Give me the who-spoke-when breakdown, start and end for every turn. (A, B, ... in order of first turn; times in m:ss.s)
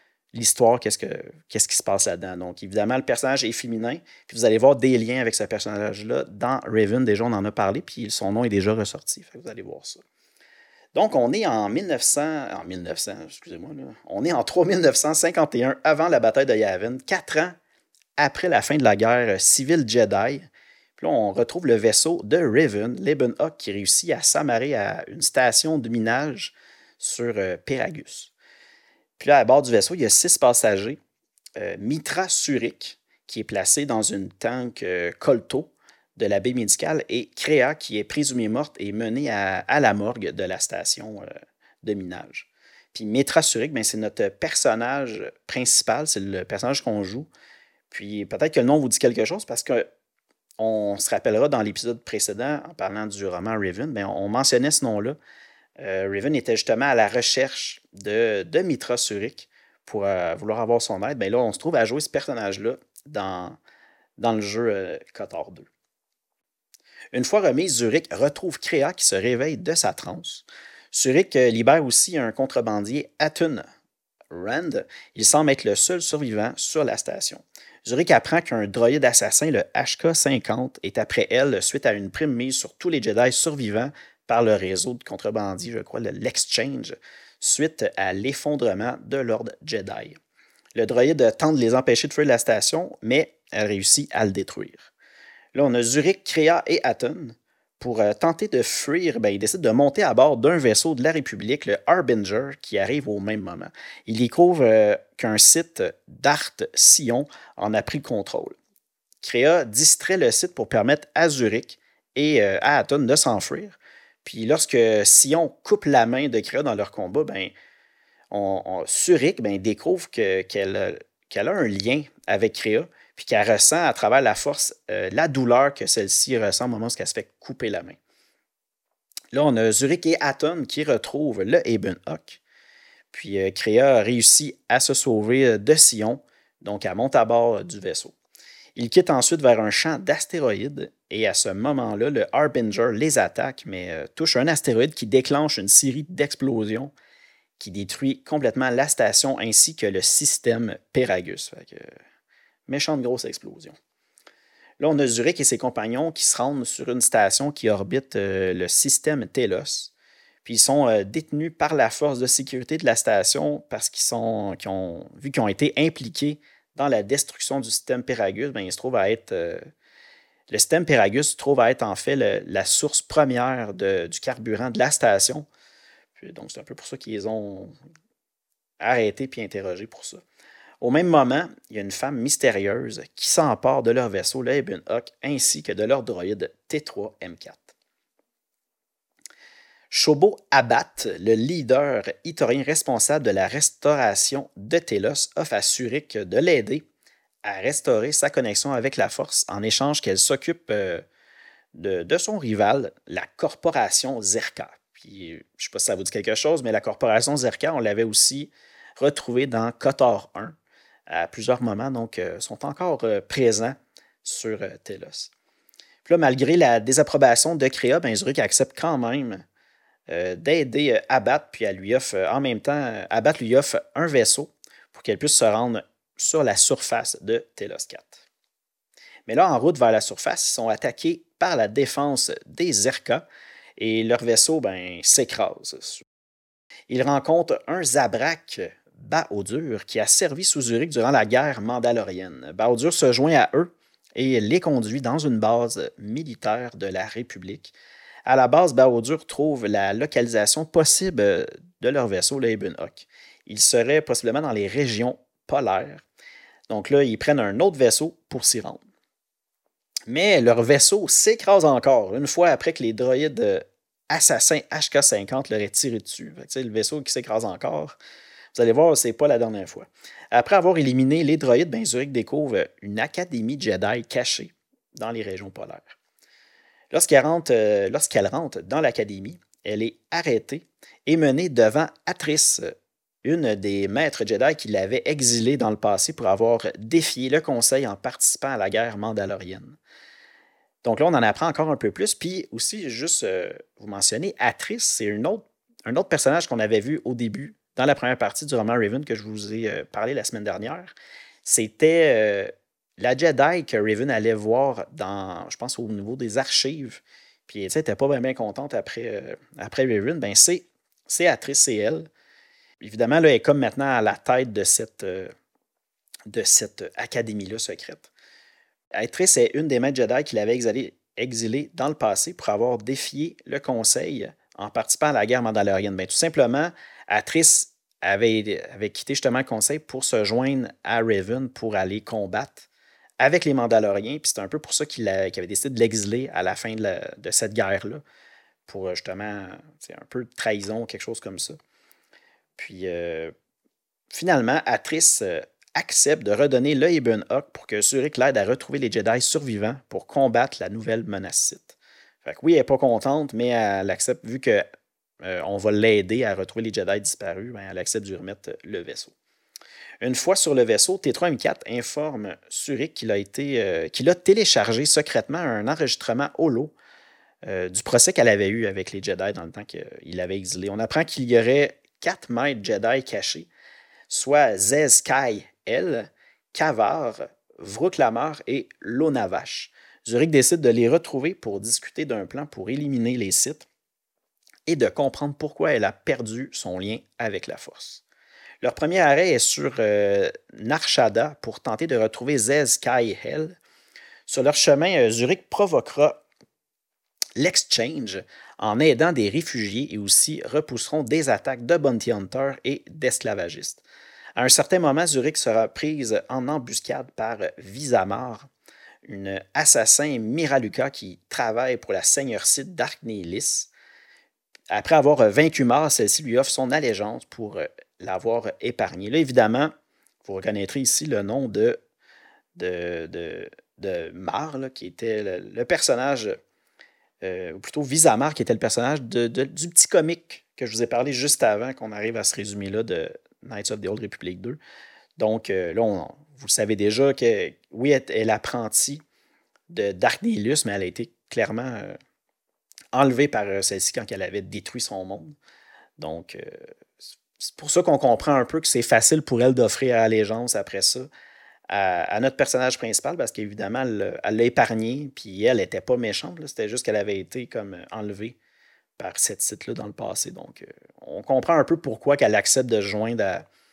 0:00.3-0:10.0 A
0:10.9-0:17.6 A
0:18.2-0:28.3 A
0:29.2-0:31.0 A
0:31.6-0:41.3 A
0:41.8-0:47.3 A
0:47.9-0:49.9 A
0:50.6-0:55.2 A
0:55.8-1:03.6 A
1:04.2-1:05.7 A
1:07.1-1:13.6 A
1:14.3-1:30.2 A
1:30.8-1:34.9 A
1:35.5-1:48.6 A
1:49.2-1:57.5 A
1:58.3-2:08.0 A
2:09.3-2:12.4 A
2:13.1-2:18.1 A
2:18.8-2:26.9 A
2:27.6-2:31.9 A
2:32.7-2:33.8 A
2:34.8-2:39.9 A
2:40.4-2:49.7 A
2:50.5-2:55.5 A
2:56.2-2:57.7 A
2:58.8-3:00.2 A
3:00.8-3:07.7 A
3:09.9-3:16.8 A
3:17.4-3:21.0 A
3:21.7-3:30.6 A
3:31.1-3:35.3 A
3:36.0-3:39.4 A
3:40.1-3:48.2 A
3:49.3-3:53.2 A
3:53.8-3:56.0 A
3:56.9-4:07.7 A
4:08.2-4:16.0 A
4:16.7-4:18.8 A
4:20.1-4:28.0 A
4:28.5-4:36.0 A
4:36.9-4:49.8 A
4:50.8-5:00.9 A
5:01.4-5:12.1 A
5:12.8-5:15.3 A
5:16.3-5:18.1 A
5:18.9-5:32.7 A
5:33.2-5:38.0 A
5:38.7-5:41.6 A
5:42.6-5:43.3 A
5:44.1-5:54.6 A
5:55.2-5:59.1 A
6:00.0-6:06.7 A
6:07.4-6:13.5 A
6:14.1-6:23.7 A
6:24.7-6:28.0 A
6:28.6-6:33.6 A
6:34.3-6:36.2 A
6:37.4-6:43.8 A
6:44.4-6:48.5 A
6:49.0-6:53.7 A
6:54.7-6:59.7 A
7:00.2-7:01.8 A
7:02.6-7:06.4 A
7:07.2-7:14.6 A
7:15.2-7:19.0 A
7:19.7-7:22.0 A
7:22.9-7:25.3 A
7:26.0-7:26.6 A
7:27.4-7:31.1 A
7:31.7-7:38.4 A
7:39.0-7:43.5 A